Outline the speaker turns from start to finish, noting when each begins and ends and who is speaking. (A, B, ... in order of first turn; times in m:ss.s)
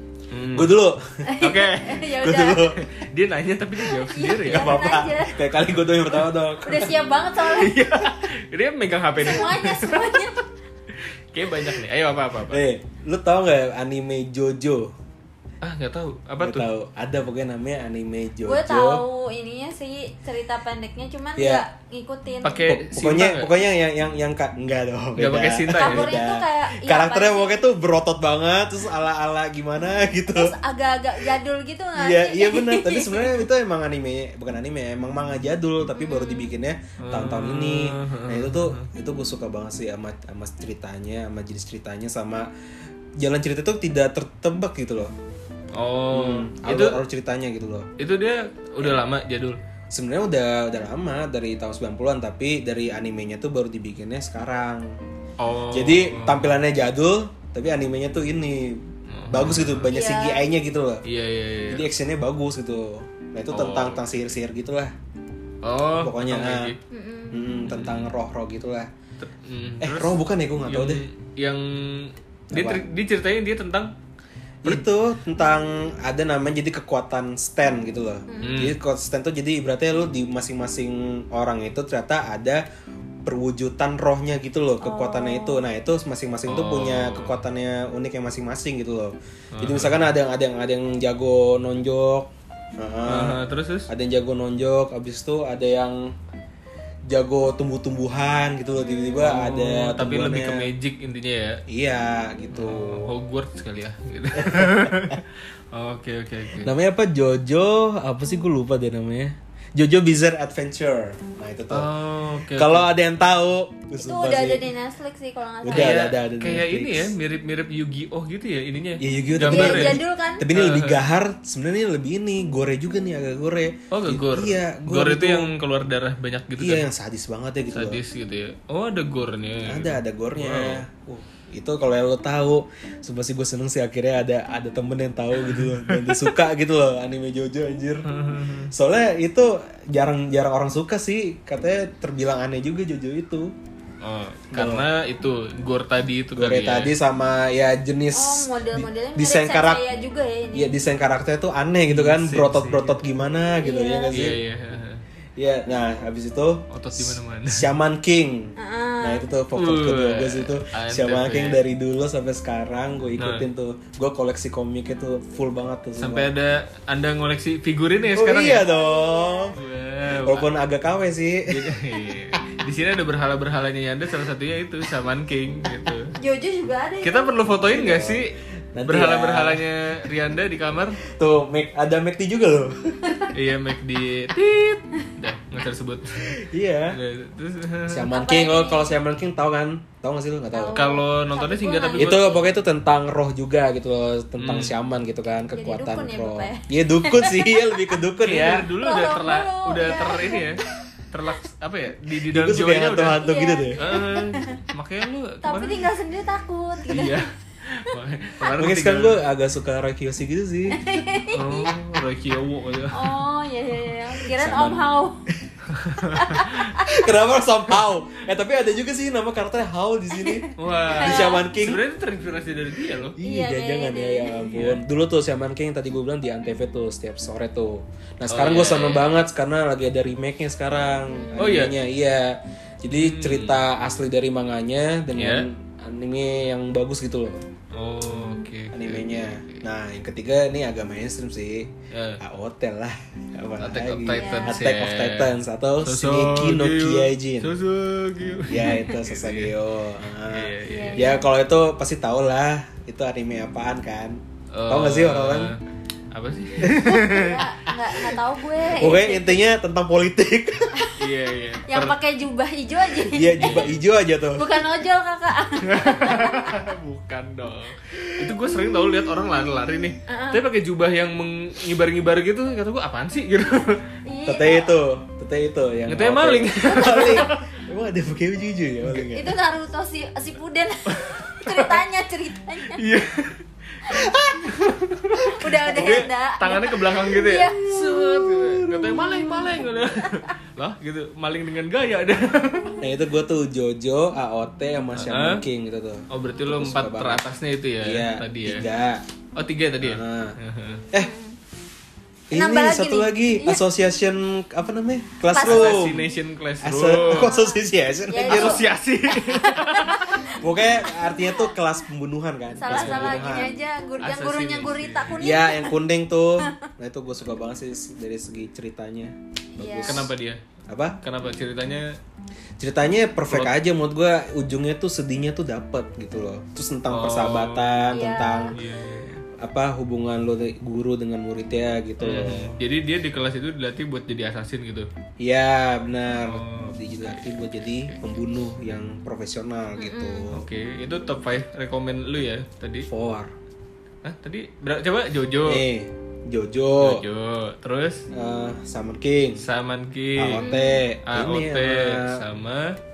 0:00.3-0:00.8 A
0:00.5-0:01.3 B
0:01.2-0:02.6 C
0:01.4-0:02.1 A
0:02.2-0:02.8 B
0:02.8-0:04.8 A
0:04.1-0:05.4 C
0:04.2-0:06.9 B
0:06.6-0:07.8 C
0:07.4-0:10.3 A
0:09.2-0:10.4 C
0:10.9-0:12.6 A
0:12.5-0:14.9 B
0:15.6-0:16.7 A
0:16.4-0:19.0 B
0:18.4-0:22.6 C
0:21.4-0:21.6 B
0:22.4-0:23.5 A
0:22.7-0:30.6 B
0:25.2-0:26.2 A
0:25.7-0:27.6 C
0:30.3-0:33.4 C
0:32.0-0:42.5 B
0:36.0-0:36.5 C
0:37.0-0:38.9 A
0:43.2-0:45.1 B
0:45.7-0:47.0 A
0:46.1-0:47.9 B
0:48.0-0:49.6 A
0:49.9-0:55.0 B
0:55.4-0:56.6 A
0:55.7-1:01.0 B
0:59.1-0:59.9 A
0:59.9-1:00.4 C
1:01.0-1:01.9 A
1:01.7-1:05.0 B
1:03.5-1:04.2 A
1:05.6-1:06.8 A
1:06.0-1:06.7 B
1:06.9-1:07.4 C
1:07.3-1:08.9 B
1:07.7-1:08.1 A
1:09.2-1:13.9 A
1:09.8-1:11.0 B
1:12.5-1:12.8 B
1:14.6-1:22.6 B
1:18.3-1:18.6 C
1:18.4-1:18.8 A
1:23.3-1:36.1 B
1:24.8-1:25.6 C
1:26.5-1:27.4 A
1:29.5-1:30.1 A
1:33.1-1:33.9 A
1:37.1-1:40.7 B
1:39.2-1:41.6 A
1:41.7-1:43.1 B
1:42.5-1:46.7 A
1:44.4-1:45.2 B
1:46.6-1:51.9 B
1:51.7-1:52.9 A
1:52.5-1:54.6 B
1:54.0-1:56.0 C
1:55.6-1:57.1 B
1:55.7-2:01.0 A
1:59.0-2:05.5 B
1:59.5-2:00.5 C
2:03.9-2:06.8 A
2:06.6-2:08.0 B
2:07.7-2:10.8 A
2:09.7-2:18.1 B
2:15.4-2:16.3 A
2:18.0-2:18.7 A
2:18.7-2:23.5 B
2:24.0-2:27.0 A
2:24.5-2:24.9 B
2:26.4-2:29.8 B
2:28.1-2:30.7 C
2:30.5-2:34.4 B
2:31.9-2:33.0 A
2:33.6-2:34.2 C
2:34.1-2:35.0 A
2:35.4-2:46.3 B
2:36.7-2:37.7 A
2:38.6-2:39.2 C
2:39.6-2:41.6 A
2:43.2-2:43.4 A
2:46.0-2:48.6 A
2:48.2-2:49.6 B
2:48.5-2:49.6 C
2:49.5-2:50.5 A
2:50.2-2:51.8 B
2:51.5-2:56.1 A
2:56.2-2:57.4 C
2:57.0-3:01.0 A
2:57.7-2:59.6 B
3:01.1-3:03.3 B
3:03.3-3:06.4 A
3:06.3-3:07.0 B
3:06.9-3:08.1 A
3:07.9-3:10.8 B
3:08.1-3:09.0 C
3:10.5-3:12.4 C
3:10.8-3:12.3 A
3:12.0-3:18.7 B
3:14.4-3:14.7 A
3:15.5-3:17.6 C
3:18.2-3:23.2 A
3:18.8-3:20.4 C
3:22.3-3:23.8 B
3:23.2-3:24.6 C
3:23.8-3:25.9 A
3:25.4-3:27.2 C
3:26.9-3:29.3 A
3:28.6-3:30.8 B
3:30.7-3:31.7 C
3:31.3-3:33.2 A
3:32.9-3:35.2 C
3:34.2-3:34.9 B
3:35.7-3:36.6 A
3:36.1-3:36.9 C
3:36.8-3:41.8 B
3:40.1-3:41.4 C
3:40.6-3:43.2 A
3:43.2-3:57.4 B
3:43.2-3:44.4 C
3:44.5-3:44.8 A
3:48.3-3:49.2 A
3:51.4-3:51.8 A
3:52.9-3:53.6 A
3:55.2-3:55.5 A
3:57.7-3:59.6 A
3:58.1-3:58.5 C
3:58.7-4:07.5 B
4:01.9-4:02.2 A
4:03.6-4:09.5 A
4:04.1-4:04.6 C
4:08.5-4:15.5 B
4:10.3-4:11.1 A
4:10.7-4:11.2 C
4:14.5-4:15.6 A
4:16.1-4:17.4 A
4:16.6-4:17.0 B
4:16.9-4:19.4 C
4:18.7-4:20.9 B
4:21.0-4:22.0 A
4:21.7-4:23.7 C
4:23.0-4:24.5 B
4:23.4-4:23.8 A
4:24.4-4:26.5 C
4:25.6-4:33.8 A
4:28.0-4:28.4 B
4:30.1-4:30.4 C
4:34.0-4:34.8 C
4:34.3-4:39.4 B
4:35.9-4:37.4 A
4:36.6-4:37.3 C
4:39.1-4:42.8 C
4:40.9-4:41.8 A
4:42.7-4:52.8 A
4:43.9-4:44.4 B
4:45.3-4:47.6 C
4:45.4-4:46.1 B
4:47.6-4:49.6 B
4:52.8-4:57.2 B
4:55.0-4:55.4 A
4:56.1-4:58.7 A
4:57.8-4:59.0 B
4:59.4-5:00.8 A
4:59.8-5:00.4 B
5:00.9-5:01.4 C
5:02.3-5:06.0 B
5:02.3-5:03.6 C
5:05.3-5:05.9 C
5:05.4-5:07.4 A
5:06.6-5:08.6 B
5:07.1-5:11.5 C
5:08.2-5:10.2 A
5:10.3-5:13.6 B
5:12.5-5:15.8 C
5:12.7-5:13.3 A
5:14.0-5:15.2 A
5:15.2-5:20.1 B
5:19.6-5:20.1 C
5:19.8-5:20.4 A
5:20.7-5:21.0 B
5:21.0-5:22.0 A
5:22.6-5:28.6 B
5:23.3-5:23.5 A
5:26.9-5:28.0 A
5:27.9-5:28.5 C
5:28.5-5:29.2 A
5:29.4-5:32.6 B
5:32.0-5:34.9 A
5:35.2-5:40.4 B
5:36.2-5:38.0 A
5:39.8-5:40.3 C
5:40.3-5:42.9 A
5:42.9-5:43.3 B
5:44.0-5:45.6 A
5:45.4-5:47.0 B
5:46.8-5:48.0 A
5:48.1-5:49.4 B
5:49.4-5:50.5 A
5:50.2-5:52.2 B
5:50.4-5:50.8 C
5:51.1-5:52.8 A